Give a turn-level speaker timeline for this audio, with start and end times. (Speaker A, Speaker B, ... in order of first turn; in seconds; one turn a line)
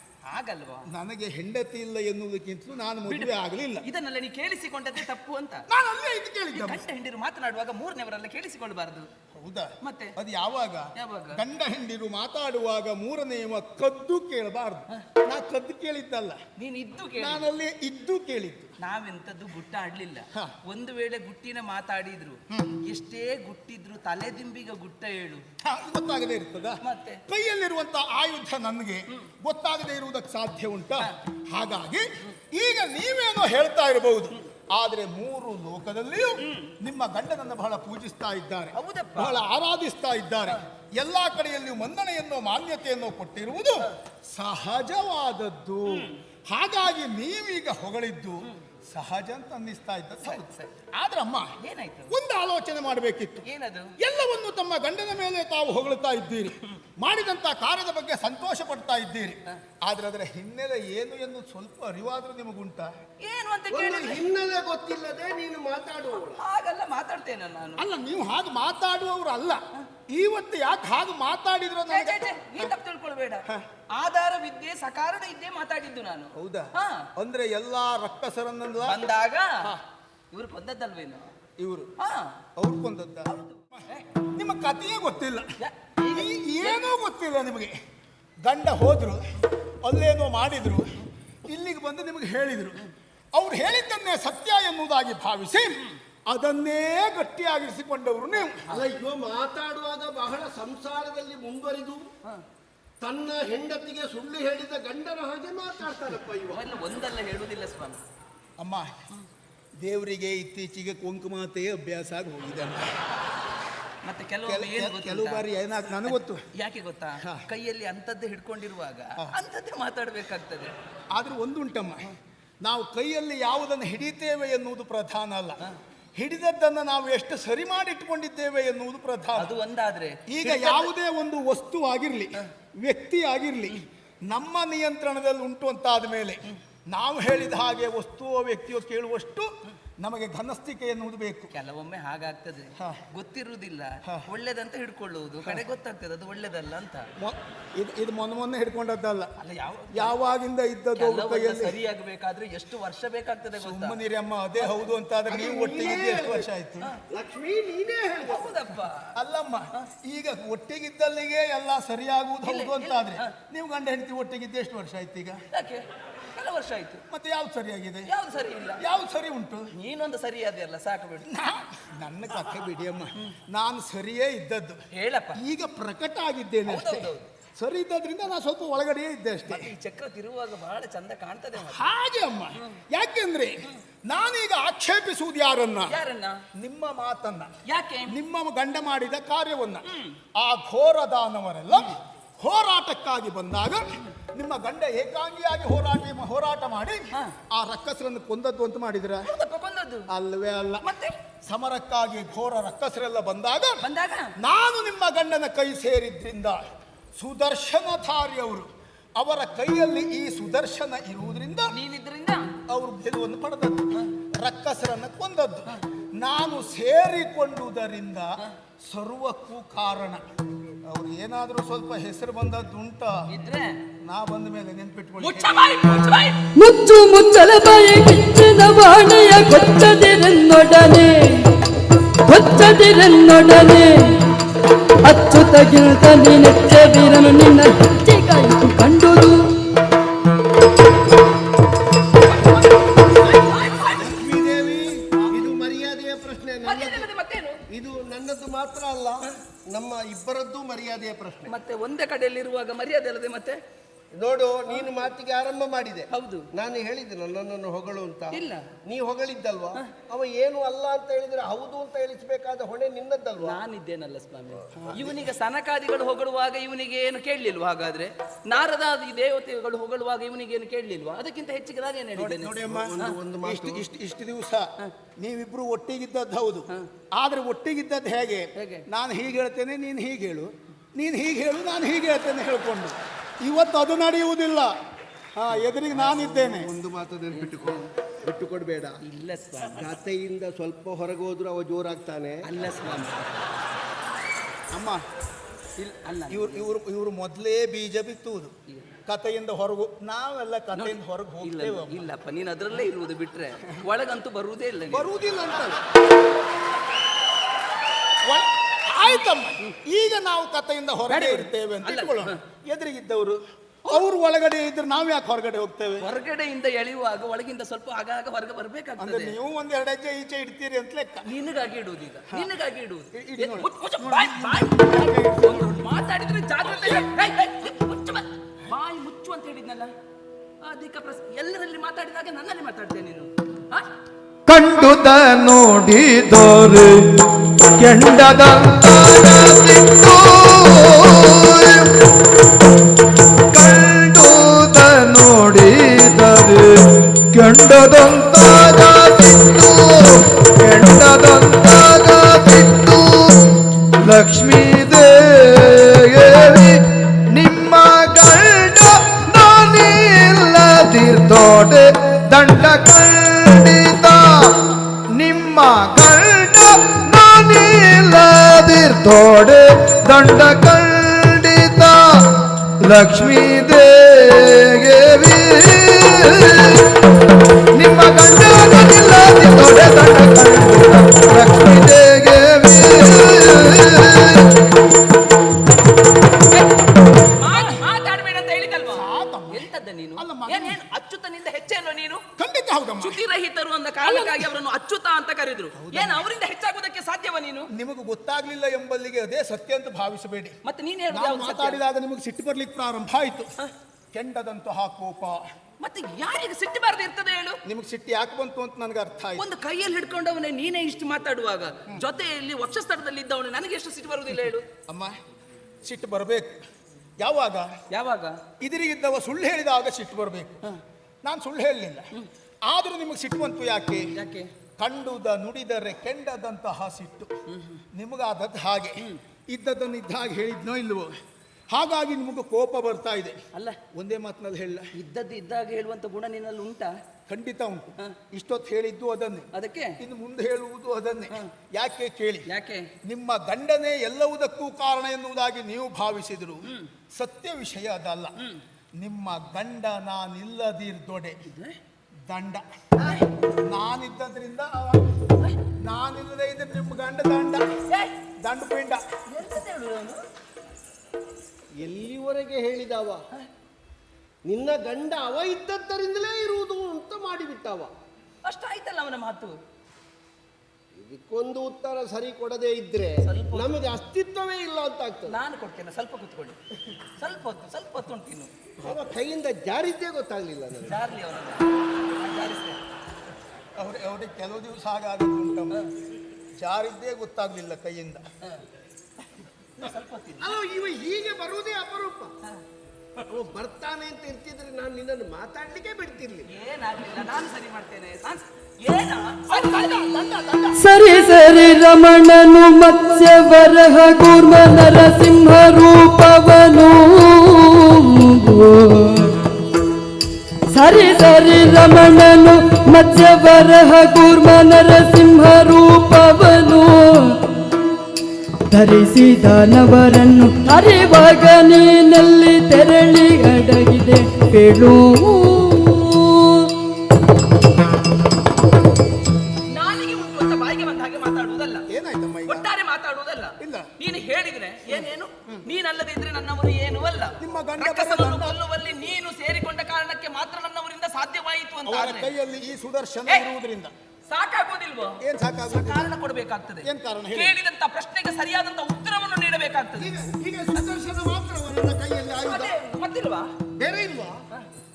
Speaker A: 0.2-0.9
Speaker B: 0.9-3.9
Speaker A: 3.1-5.7
Speaker B: 5.7-6.8
Speaker A: 6.5-9.1
Speaker B: 9.3-16.4
Speaker A: 9.8-10.2
Speaker A: 10.9-11.4
Speaker A: 16.6-17.4
Speaker B: 17.2-18.7
Speaker A: 18.8-25.4
Speaker B: 22.5-22.7
Speaker B: 25.6-51.6
Speaker A: 26.8-27.2
Speaker A: 36.4-36.7
Speaker A: 38.7-39.4
Speaker A: 45.9-46.2
Speaker A: 50.2-50.7
Speaker A: 51.6-52.1
Speaker B: 52.1-53.4
Speaker A: 53.4-54.0
Speaker B: 54.0-62.9
Speaker A: 63.2-64.2
Speaker C: 63.7-66.4
Speaker A: 66.2-67.8
Speaker B: 67.8-72.7
Speaker A: 71.9-77.1
Speaker B: 76.3-79.0
Speaker A: 78.8-79.7
Speaker A: 80.3-81.3
Speaker B: 81.6-81.9
Speaker A: 82.0-82.3
Speaker B: 82.6-87.7
Speaker A: 83.3-84.0
Speaker A: 85.6-86.8
Speaker B: 88.4-89.2
Speaker B: 89.8-92.8
Speaker B: 93.3-98.7
Speaker C: 98.7-102.1
Speaker C: 103.0-106.6
Speaker A: 106.5-108.0
Speaker B: 108.6-109.0
Speaker B: 109.8-113.0
Speaker A: 114.0-115.4
Speaker B: 114.5-116.5
Speaker A: 116.1-120.7
Speaker B: 121.1-122.1
Speaker B: 122.6-125.6
Speaker B: 126.2-129.5
Speaker A: 129.3-130.9
Speaker B: 130.3-141.5
Speaker A: 141.5-147.1
Speaker B: 142.8-143.0
Speaker B: 147.2-149.3
Speaker A: 149.4-150.1
Speaker B: 149.9-151.8
Speaker A: 150.9-154.0
Speaker B: 153.6-156.9
Speaker A: 154.6-154.9
Speaker C: 155.3-156.4
Speaker C: 157.1-158.5
Speaker A: 158.2-159.1
Speaker B: 159.1-165.4
Speaker A: 162.4-163.3
Speaker A: 165.5-167.0
Speaker B: 167.1-168.1
Speaker A: 168.1-168.8
Speaker B: 168.8-169.7
Speaker A: 169.7-171.3
Speaker B: 171.2-174.8
Speaker A: 174.9-175.4
Speaker B: 175.3-179.7
Speaker A: 176.7-177.3
Speaker A: 179.4-181.8
Speaker B: 181.6-185.9
Speaker A: 185.9-186.4
Speaker B: 186.5-187.5
Speaker A: 187.7-188.1
Speaker B: 188.1-189.8
Speaker A: 189.8-190.2
Speaker B: 190.4-199.3
Speaker A: 199.2-200.1
Speaker B: 200.1-200.9
Speaker A: 200.8-201.1
Speaker B: 201.4-203.8
Speaker A: 203.8-204.3
Speaker B: 204.4-206.6
Speaker B: 207.2-211.7
Speaker A: 211.7-212.5
Speaker B: 212.7-220.2
Speaker B: 220.8-223.3
Speaker A: 223.3-223.8
Speaker B: 224.0-225.5
Speaker A: 225.2-226.4
Speaker D: 226.5-231.5
Speaker D: 232.3-234.2
Speaker D: 235.0-239.5
Speaker A: 242.3-244.2
Speaker C: 244.0-247.1
Speaker A: 246.6-247.6
Speaker C: 247.7-251.5
Speaker A: 251.5-253.6
Speaker C: 254.1-263.6
Speaker A: 256.1-256.5
Speaker A: 258.3-258.7
Speaker A: 263.4-273.1
Speaker B: 264.7-265.2
Speaker B: 272.1-284.7
Speaker C: 272.6-273.8
Speaker A: 278.6-278.9
Speaker B: 285.3-286.7
Speaker C: 285.9-289.0
Speaker A: 287.3-287.9
Speaker A: 289.0-290.0
Speaker C: 289.7-292.4
Speaker A: 292.4-293.5
Speaker B: 294.7-295.0
Speaker A: 295.8-296.7
Speaker B: 296.3-298.5
Speaker A: 298.7-299.0
Speaker B: 299.1-302.1
Speaker A: 300.7-305.1
Speaker B: 304.9-305.8
Speaker B: 308.2-316.1
Speaker A: 311.1-312.4
Speaker A: 316.0-319.4
Speaker B: 319.0-321.3
Speaker A: 321.2-329.9
Speaker B: 323.1-325.8
Speaker B: 326.6-327.1
Speaker A: 330.6-333.9
Speaker E: 334.5-337.3
Speaker E: 337.8-342.0
Speaker E: 343.5-364.6
Speaker E: 365.1-372.2
Speaker E: 372.8-376.9
Speaker E: 377.7-384.5
Speaker A: 386.5-392.2
Speaker B: 388.9-390.8
Speaker B: 392.4-393.2
Speaker A: 393.0-397.7
Speaker B: 394.0-394.5
Speaker B: 395.7-396.2
Speaker B: 397.7-400.6
Speaker A: 400.6-401.8
Speaker B: 401.1-403.5
Speaker B: 404.1-405.4
Speaker A: 405.8-407.6
Speaker B: 407.6-409.4
Speaker A: 409.4-414.6
Speaker B: 414.9-415.2
Speaker B: 415.8-416.6
Speaker B: 417.2-417.7
Speaker A: 417.9-418.4
Speaker B: 418.6-420.6
Speaker B: 421.2-422.1
Speaker B: 422.7-424.1
Speaker A: 424.1-424.5
Speaker B: 424.8-427.3
Speaker A: 427.5-427.8
Speaker B: 427.9-431.1
Speaker B: 431.7-433.4
Speaker A: 433.5-433.8
Speaker B: 433.9-434.9
Speaker A: 434.9-436.9
Speaker B: 437.3-442.4
Speaker A: 439.5-440.0
Speaker A: 442.5-442.9
Speaker B: 443.0-448.4
Speaker A: 446.6-446.9
Speaker B: 449.0-451.4
Speaker A: 451.4-451.8
Speaker B: 452.3-452.6
Speaker B: 453.6-455.1
Speaker B: 455.8-457.7
Speaker A: 457.9-458.1
Speaker B: 458.4-459.0
Speaker A: 459.3-460.2
Speaker C: 461.8-463.2
Speaker C: 464.4-467.9
Speaker A: 468.4-469.5
Speaker C: 470.9-475.4
Speaker A: 473.2-473.8
Speaker A: 475.3-476.6
Speaker A: 477.2-478.5
Speaker C: 478.8-481.0
Speaker A: 480.8-482.8
Speaker B: 483.8-485.8
Speaker B: 486.6-488.2
Speaker A: 489.8-490.6
Speaker C: 490.4-492.3
Speaker C: 493.3-496.5
Speaker A: 496.5-500.1
Speaker B: 499.5-500.8
Speaker D: 500.8-509.4
Speaker D: 510.7-517.4
Speaker D: 518.7-526.7
Speaker A: 529.7-531.9
Speaker B: 531.9-532.7
Speaker A: 532.5-542.3
Speaker B: 533.6-533.9
Speaker B: 537.4-538.6
Speaker B: 541.9-543.9
Speaker A: 544.3-550.1
Speaker B: 545.2-546.1
Speaker B: 546.8-547.5
Speaker C: 550.0-552.7
Speaker A: 552.4-553.5
Speaker C: 553.8-554.4